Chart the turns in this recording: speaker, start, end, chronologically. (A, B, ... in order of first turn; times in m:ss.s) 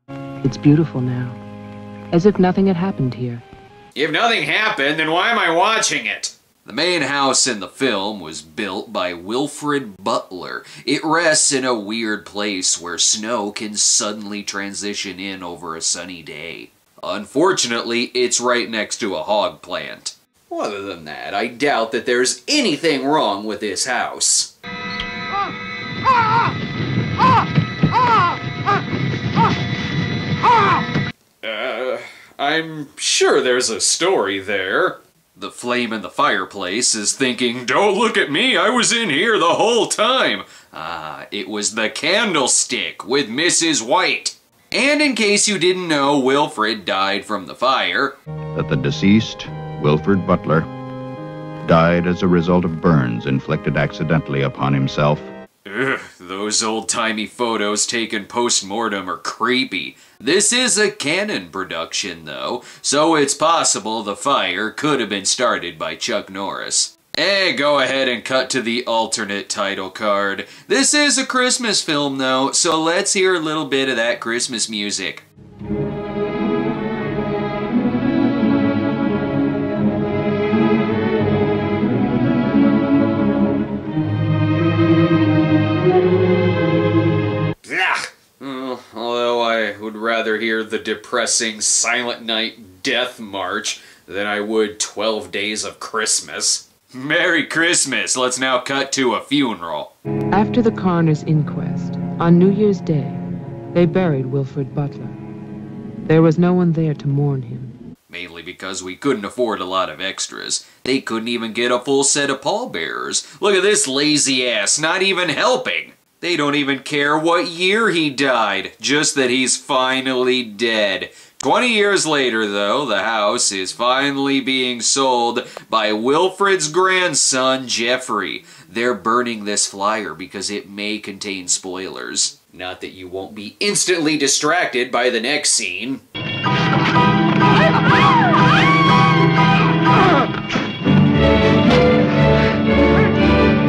0:00.4-0:01.4 A
0:02.1-0:03.4 A
0:03.9-0:24.5 B
0:31.4-0:48.2 B
0:48.6-0:50.7 C
0:51.6-0:55.3 C
0:55.6-1:15.2 B
1:27.6-1:39.9 B
1:40.3-1:45.2 A
1:46.0-1:47.8 A
1:48.1-2:16.0 B